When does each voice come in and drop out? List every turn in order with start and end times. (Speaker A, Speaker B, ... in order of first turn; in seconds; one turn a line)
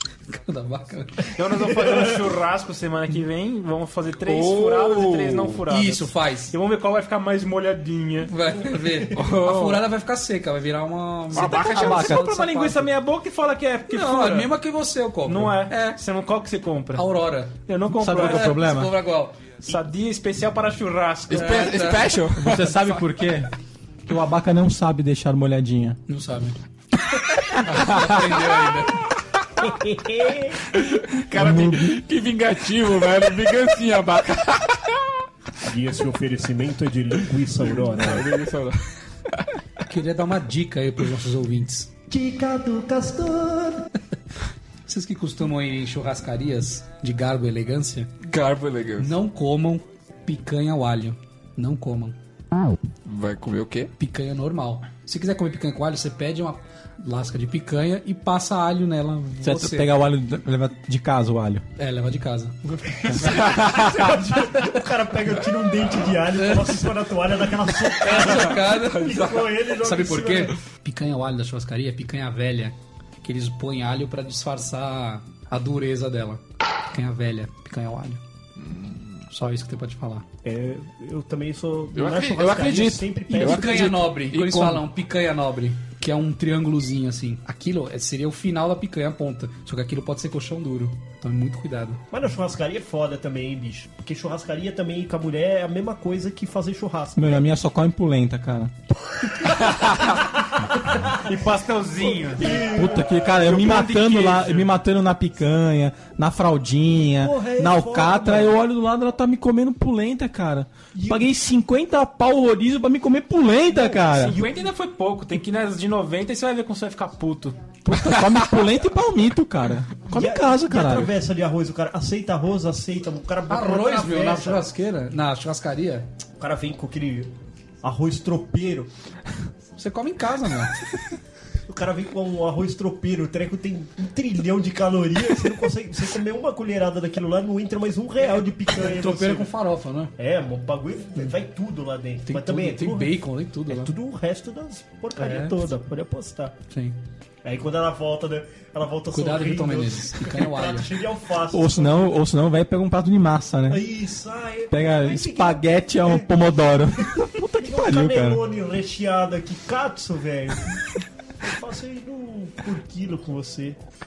Speaker A: 0.3-1.3
Speaker B: 1.4-8.3
Speaker C: 4.2-5.6
Speaker A: 5.7-6.5
Speaker A: 8.2-12.8
Speaker D: 8.7-9.1
Speaker C: 9.1-9.9
Speaker C: 11.3-12.2
Speaker E: 11.4-12.9
Speaker B: 11.7-14.6
Speaker A: 13.9-16.0
Speaker B: 15.2-17.1
Speaker A: 16.9-19.5
Speaker B: 17.7-18.6
Speaker E: 17.9-18.9
Speaker B: 19.6-21.9
Speaker C: 21.3-23.0
Speaker A: 21.3-22.1
Speaker E: 22.4-23.5
Speaker E: 24.1-26.0
Speaker A: 26.1-26.6
Speaker A: 27.6-29.0
Speaker C: 27.7-28.8
Speaker D: 29.6-30.6
Speaker C: 30.7-35.0
Speaker E: 31.4-31.9
Speaker D: 35.6-38.3
Speaker C: 37.6-39.5
Speaker A: 39.9-41.9
Speaker D: 42.1-43.9
Speaker A: 44.9-48.1
Speaker C: 48.2-49.2
Speaker A: 49.0-52.2
Speaker C: 53.1-53.9
Speaker A: 54.0-60.0
Speaker E: 59.4-61.6
Speaker A: 61.8-63.4
Speaker D: 63.0-70.6
Speaker C: 63.2-64.2
Speaker A: 66.4-66.8
Speaker A: 68.0-69.2
Speaker C: 69.1-69.5
Speaker A: 69.8-78.2
Speaker C: 78.7-79.0
Speaker A: 79.3-80.2
Speaker D: 80.4-84.0
Speaker C: 81.9-84.8
Speaker A: 83.3-92.0
Speaker D: 92.1-97.5
Speaker E: 97.2-98.7
Speaker D: 99.3-101.3
Speaker B: 101.2-102.7
Speaker D: 102.0-103.3
Speaker E: 102.5-114.4
Speaker B: 103.3-104.7
Speaker D: 107.2-108.6
Speaker D: 110.9-111.3
Speaker D: 113.7-114.3
Speaker B: 114.2-117.7
Speaker E: 117.8-121.2
Speaker D: 120.1-124.7
Speaker A: 123.5-126.1
Speaker D: 126.4-127.3
Speaker D: 127.8-128.9
Speaker A: 129.8-130.8
Speaker D: 131.7-139.5
Speaker A: 138.7-140.1
Speaker D: 140.2-146.6
Speaker A: 142.3-143.9
Speaker A: 145.2-145.6
Speaker A: 146.7-147.0
Speaker D: 147.4-152.1
Speaker A: 149.1-150.9
Speaker E: 151.5-153.9
Speaker D: 153.7-156.3
Speaker E: 154.7-158.4
Speaker D: 157.2-160.8
Speaker D: 161.4-163.8